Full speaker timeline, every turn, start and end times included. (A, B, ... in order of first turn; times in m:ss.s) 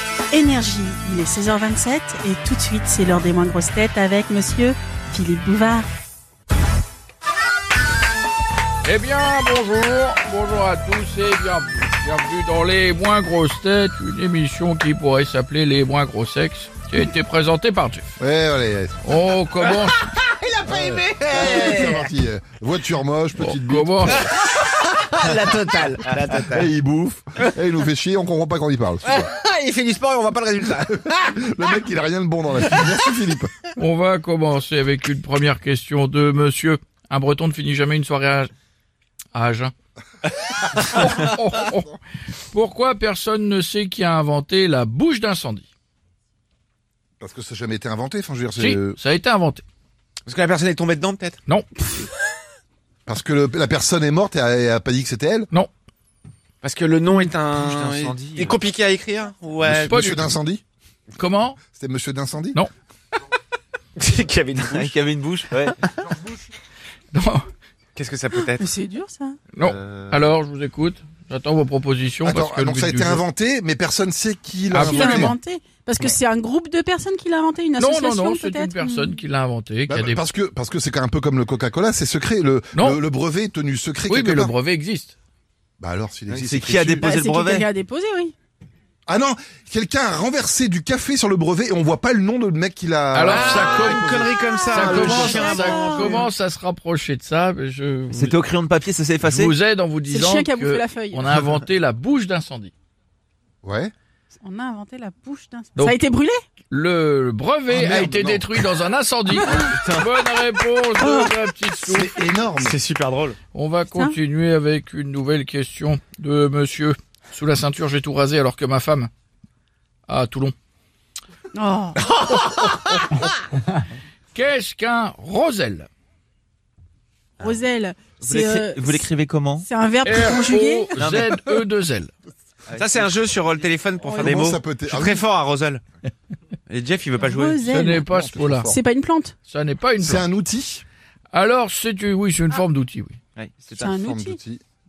0:00.3-0:05.9 A
0:08.8-0:18.2 B
0:18.2-0:19.0 C
0:19.0-0:20.1 B
0:20.0-0:22.0 D
0:20.7-0:24.3 C
0:23.4-0:24.3 B
0:25.0-0:26.7 D
0:26.2-0:29.3 C
0:29.1-0:31.1 D
0:31.0-0:33.5 C
0:33.8-0:38.5 B
0:39.3-0:39.7 B
0:40.7-0:41.9 B
0:41.6-0:42.0 C
0:42.5-0:45.7 B
0:47.2-0:49.0 C
0:48.6-0:49.6 B
0:50.3-0:51.4 D
0:53.1-0:55.5 C
0:56.6-1:00.0 D
0:57.5-0:58.6 E
0:59.6-1:00.6 C
0:59.9-1:00.3 B
1:01.2-1:01.6 B
1:01.7-1:02.6 C
1:04.0-1:05.0 D
1:04.6-1:05.8 E
1:06.1-1:06.4 C
1:07.1-1:07.5 B
1:08.0-1:08.6 D
1:08.3-1:09.4 A
1:09.5-1:13.2 B
1:12.2-1:15.4 C
1:14.7-1:15.3 B
1:14.8-1:19.2 A
1:17.8-1:20.2 B
1:19.9-1:24.5 C
1:22.8-1:23.0 B
1:24.1-1:25.2 B
1:25.8-1:27.1 C
1:26.3-1:27.7 E
1:27.0-1:28.3 A
1:29.1-1:35.3 C
1:33.1-1:34.1 B
1:33.3-1:36.2 D
1:34.7-1:38.4 B
1:34.7-1:36.2 A
1:38.1-1:39.5 E
1:39.2-1:42.7 B
1:40.1-1:41.3 A
1:43.6-1:43.9 C
1:44.4-1:46.4 A
1:46.7-1:52.3 B
1:47.7-1:48.5 C
1:49.8-1:50.0 D
1:51.0-1:51.2 A
1:51.8-1:52.8 C
1:52.6-1:53.4 D
1:53.5-1:59.1 B
2:00.1-2:00.6 B
2:01.5-2:02.0 A
2:04.3-2:05.9 B
2:07.4-2:09.0 A
2:08.2-2:09.7 E
2:09.6-2:11.0 A
2:10.0-2:12.1 B
2:11.0-2:11.3 E
2:12.7-2:13.6 E
2:12.8-2:15.8 D
2:14.0-2:14.4 A
2:14.2-2:15.2 C
2:16.7-2:17.6 D
2:17.2-2:18.1 A
2:17.7-2:18.7 B
2:17.8-2:18.8 C
2:18.7-2:19.4 A
2:19.5-2:20.3 B
2:20.0-2:20.8 C
2:21.3-2:23.2 B
2:23.4-2:23.9 E
2:23.7-2:24.4 A
2:23.9-2:24.6 C